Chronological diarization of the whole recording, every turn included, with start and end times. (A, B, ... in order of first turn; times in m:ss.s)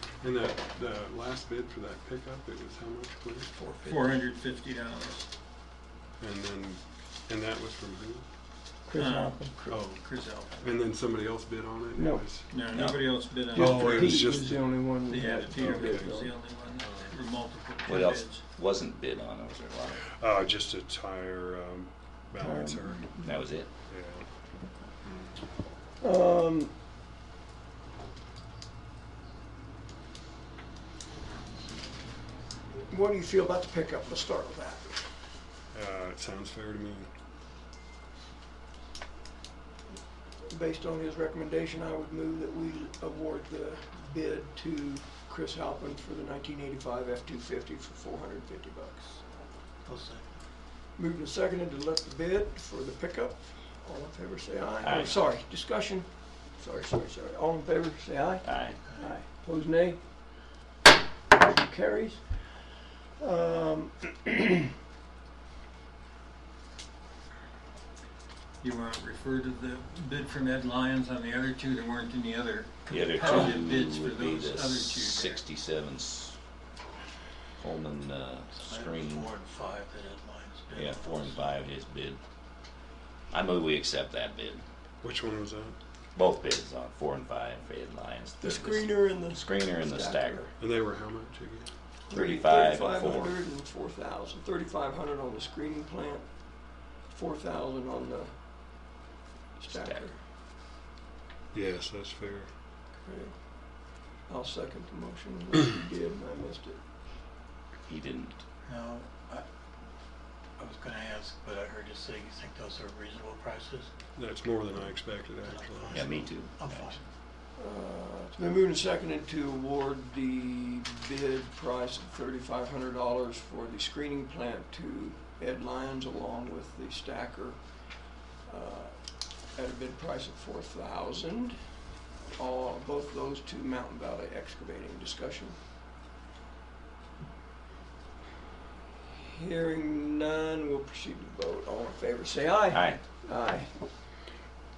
0:00.2-0:03.5 A
0:03.5-0:04.2 B
0:03.8-0:05.3 C
0:06.2-0:08.2 A
0:08.9-0:09.7 D
0:09.0-0:10.6 C
0:09.7-0:10.0 A
0:10.6-0:12.5 A
0:12.0-0:12.2 D
0:12.5-0:14.3 C
0:12.7-0:13.1 E
0:13.5-0:16.2 A
0:13.5-0:16.3 D
0:15.1-0:18.4 C
0:16.8-0:17.1 A
0:17.9-0:20.0 E
0:20.1-0:23.1 A
0:22.4-0:23.4 D
0:23.2-0:23.7 E
0:23.9-0:24.3 A
0:25.0-0:25.4 A
0:26.0-0:26.7 D
0:32.9-0:35.0 D
0:35.7-0:37.1 A
0:40.5-0:49.2 D
0:49.8-0:50.3 B
0:51.0-1:00.0 D
0:54.8-0:55.2 E
0:58.4-0:58.8 E
0:58.8-0:59.2 B
1:01.3-1:02.2 D
1:03.2-1:04.7 D
1:08.6-1:15.4 C
1:12.9-1:16.4 E
1:17.6-1:19.3 E
1:18.5-1:21.6 B
1:20.8-1:22.2 E
1:23.3-1:24.6 E
1:25.0-1:25.8 A
1:26.2-1:30.5 E
1:28.4-1:30.5 D
1:30.6-1:31.7 A
1:32.1-1:33.4 E
1:32.1-1:36.3 D
1:37.1-1:38.3 D
1:39.6-1:40.2 D
1:39.7-1:40.1 E
1:41.5-1:42.5 A
1:43.0-1:43.4 D
1:44.3-1:46.8 D
1:47.9-1:48.4 E
1:48.7-1:49.4 B
1:50.6-1:53.9 B
1:54.2-1:56.2 A
1:55.5-1:57.0 B
1:55.9-1:57.0 E
1:57.6-2:07.6 D
2:08.5-2:08.9 D
2:09.6-2:11.6 D
2:12.4-2:15.6 D
2:19.1-2:23.7 D
2:22.7-2:23.0 E